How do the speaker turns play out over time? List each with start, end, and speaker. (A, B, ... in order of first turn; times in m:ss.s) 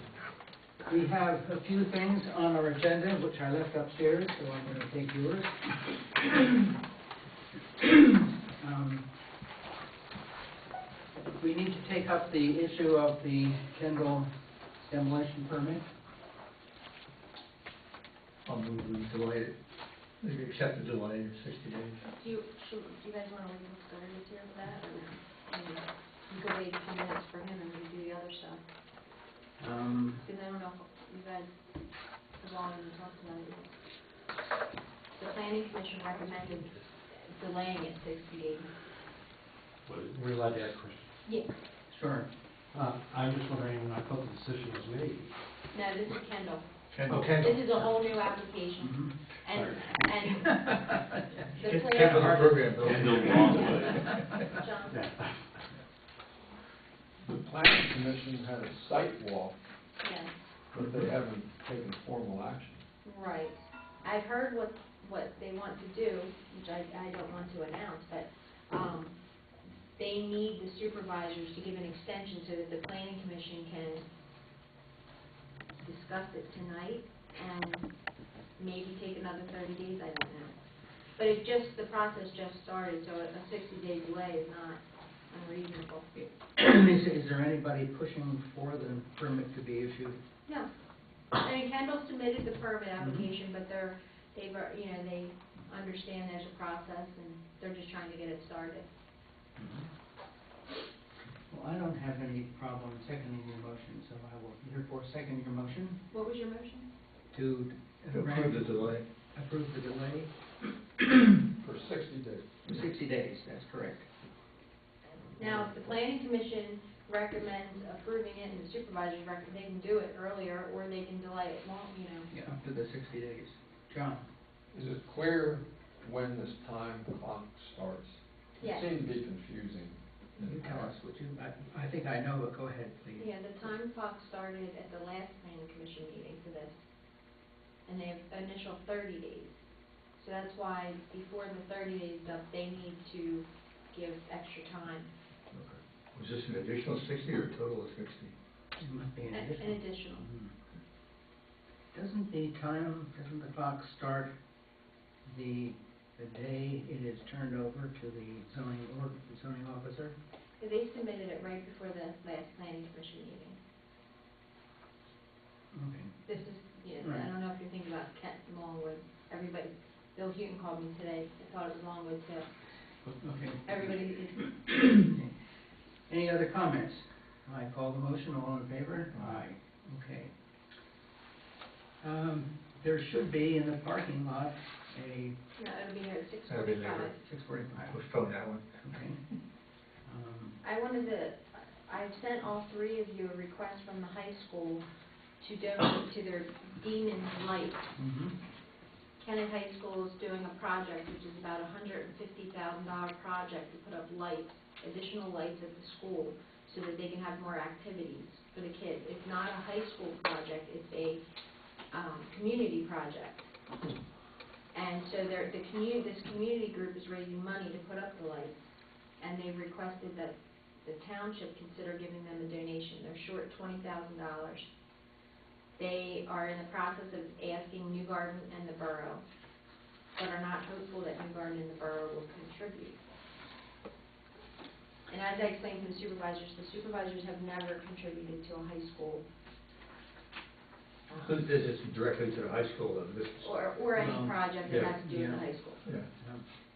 0:00.8-0:05.6 A
0:06.2-0:06.6 A
0:07.8-0:09.0 A
0:11.4-0:15.8 A
0:18.4-0:19.5 B
0:20.2-0:22.0 B
0:22.0-0:28.6 C
0:29.6-0:30.2 A
0:30.2-0:31.6 C
0:32.4-0:33.8 C
0:35.1-0:38.7 C
0:39.9-0:41.1 D
0:41.2-0:41.5 C
0:41.9-0:42.3 A
0:42.7-0:45.3 D
0:45.7-0:50.9 C
0:46.9-0:47.8 B
0:47.1-0:47.3 D
0:48.8-0:49.1 A
0:50.5-0:53.9 A
0:51.6-0:55.0 C
0:51.8-0:53.6 B
0:52.8-0:54.2 D
0:54.9-0:55.5 D
0:57.2-0:59.6 E
1:00.0-1:00.3 C
1:00.7-1:02.8 E
1:03.0-1:09.2 C
1:10.0-1:14.0 C
1:15.8-1:17.9 C
1:18.6-1:20.6 C
1:21.2-1:26.0 C
1:26.2-1:30.2 A
1:31.4-1:38.9 C
1:33.0-1:33.3 A
1:39.6-1:39.9 A
1:41.5-1:46.0 A
1:46.1-1:46.9 C
1:47.3-1:50.3 A
1:48.1-1:49.0 B
1:51.0-1:51.3 A
1:51.6-1:52.5 E
1:52.6-1:54.1 A
1:55.4-2:02.3 C
2:02.3-2:04.2 A
2:04.7-2:10.9 E
2:08.6-2:08.9 C
2:10.4-2:13.3 A
2:13.2-2:16.8 C
2:17.9-2:19.6 C
2:20.2-2:25.1 C
2:25.5-2:28.3 B
2:28.8-2:30.5 A
2:29.3-2:30.2 C
2:31.9-2:34.3 A
2:35.2-2:40.2 A
2:40.6-2:43.6 C
2:45.7-2:46.2 A
2:46.2-2:52.5 C
2:47.0-2:47.3 A
2:53.2-2:55.3 A
2:53.6-2:54.5 C
2:56.1-3:00.3 A
2:59.1-2:59.4 B
3:02.0-3:05.4 A
3:05.6-3:07.2 C
3:06.5-3:07.1 B
3:07.2-3:08.0 A
3:07.9-3:08.6 B
3:08.8-3:09.2 A
3:10.0-3:10.6 A
3:10.6-3:14.9 C
3:15.4-3:17.8 C
3:18.0-3:18.3 A
3:19.2-3:31.2 C
3:31.9-3:33.5 C
3:34.7-3:38.6 C
3:39.2-3:44.7 C
3:45.8-3:49.2 C
3:50.2-3:53.0 C
3:55.1-3:59.2 C
4:01.2-4:03.5 B
4:03.4-4:05.8 C
4:04.0-4:05.4 A
4:06.2-4:06.4 A